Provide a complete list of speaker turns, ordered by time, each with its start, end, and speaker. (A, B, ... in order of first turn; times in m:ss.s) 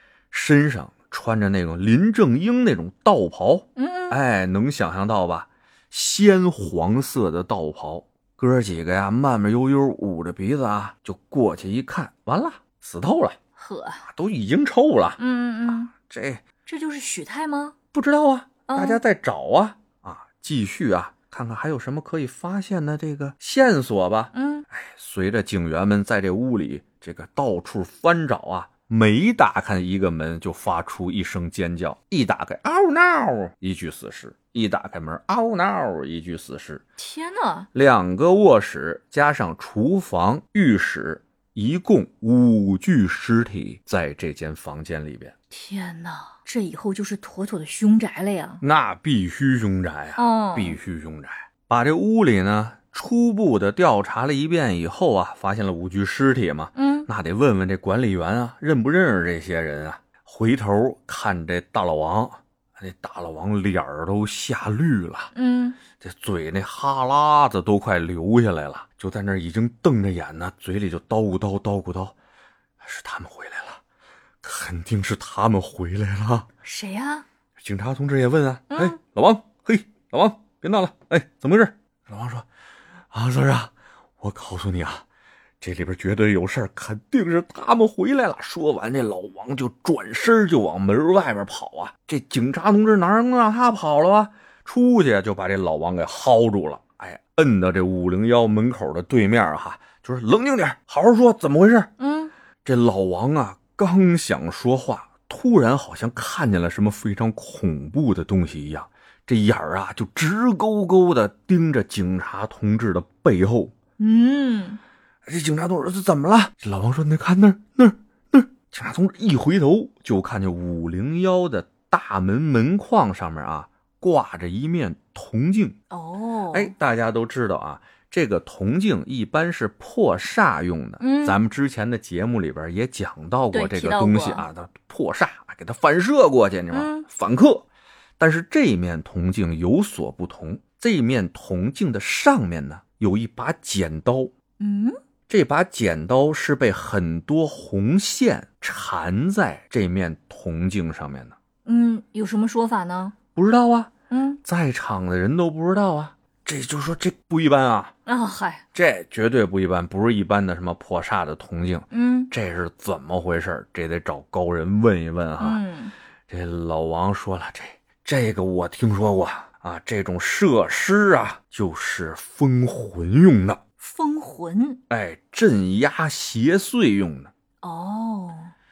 0:00.3-0:13.4 A
0:03.8-0:04.2 B
0:13.6-0:14.0 B
0:14.0-0:15.2 A
0:15.2-0:15.9 B
0:15.9-0:16.4 A
0:16.7-0:17.8 B
0:17.9-0:36.8 A
0:18.7-0:19.0 B
0:24.3-0:24.7 B
0:37.0-0:37.7 B
0:37.7-0:45.3 A
0:45.5-0:48.6 B
0:48.6-1:05.3 A
0:50.2-0:50.8 B
0:56.8-0:57.1 B
1:05.3-1:05.8 B
1:06.0-1:12.2 A
1:12.8-1:13.8 A
1:14.4-1:16.5 A
1:16.6-1:17.2 B
1:17.6-1:22.5 A
1:18.7-1:19.0 B
1:23.1-1:25.0 A
1:25.6-1:41.9 A
1:42.0-1:42.3 B
1:42.6-1:53.7 A
1:54.0-1:54.8 B
1:55.3-2:05.8 A
2:05.9-2:06.7 B
2:06.5-2:17.7 A
2:11.0-2:11.4 B
2:13.5-2:14.5 B
2:16.7-2:17.1 B
2:18.2-2:24.3 A
2:24.6-2:25.0 B
2:25.3-2:31.4 A
2:31.6-2:33.2 B
2:33.4-2:33.9 A
2:34.1-2:34.4 B
2:34.4-2:37.9 A
2:38.1-2:38.6 B
2:38.7-2:45.6 A
2:41.9-2:42.3 B
2:45.4-2:45.9 B
2:46.3-2:53.6 A
2:53.8-2:54.8 B
2:54.9-2:57.3 A
2:57.6-2:58.5 B